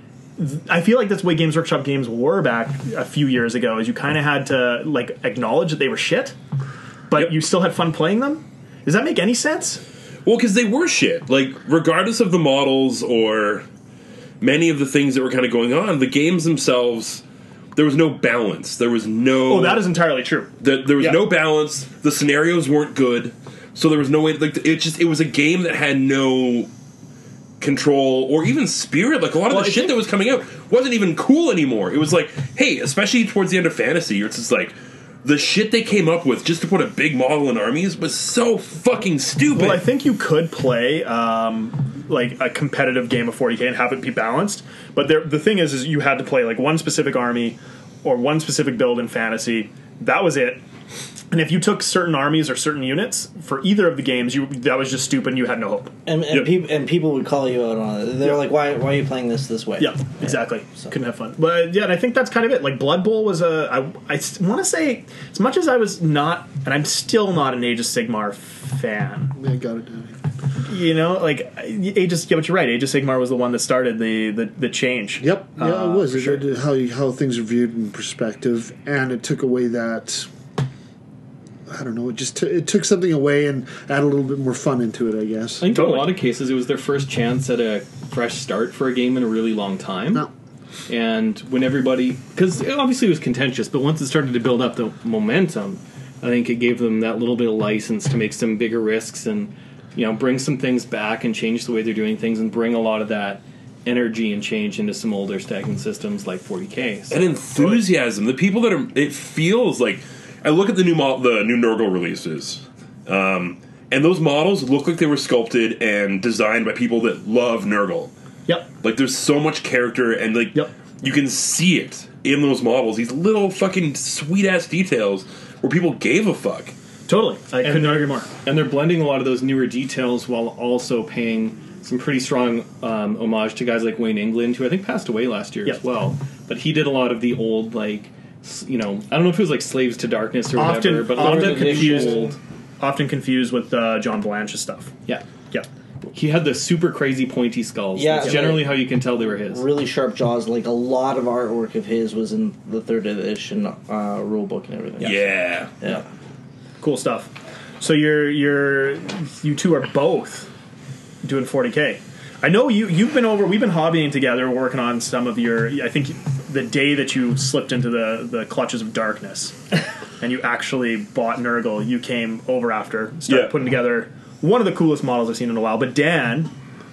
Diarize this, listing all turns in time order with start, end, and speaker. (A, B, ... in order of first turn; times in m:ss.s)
0:00.4-0:06.4 A
0:07.1-0:09.8 A
0:10.2-0:13.7 B
0:14.4-0:17.2 B
0:17.8-0:19.9 B
0:19.5-0:21.2 A
0:20.6-0:26.7 B
0:27.6-0:39.8 B
0:29.5-0:30.0 A
0:39.5-0:50.6 A
0:51.3-0:56.0 A
0:56.1-1:00.9 C
0:59.8-1:09.4 A
1:09.4-1:10.2 D
1:10.7-1:16.4 A
1:15.2-1:20.3 D
1:21.7-1:25.6 D
1:25.6-1:30.3 E
1:25.6-1:26.1 A
1:30.9-1:47.8 E
1:47.1-1:58.1 B
1:58.8-2:06.7 B
2:07.1-2:08.3 A
2:07.6-2:22.4 E
2:20.6-2:24.9 A
2:21.1-2:22.4 C
2:26.1-2:29.7 E
2:28.0-2:36.0 C
2:35.0-2:35.7 B
2:36.8-2:40.5 A
2:41.2-2:49.6 A
2:50.2-2:56.5 A
2:53.3-2:53.6 B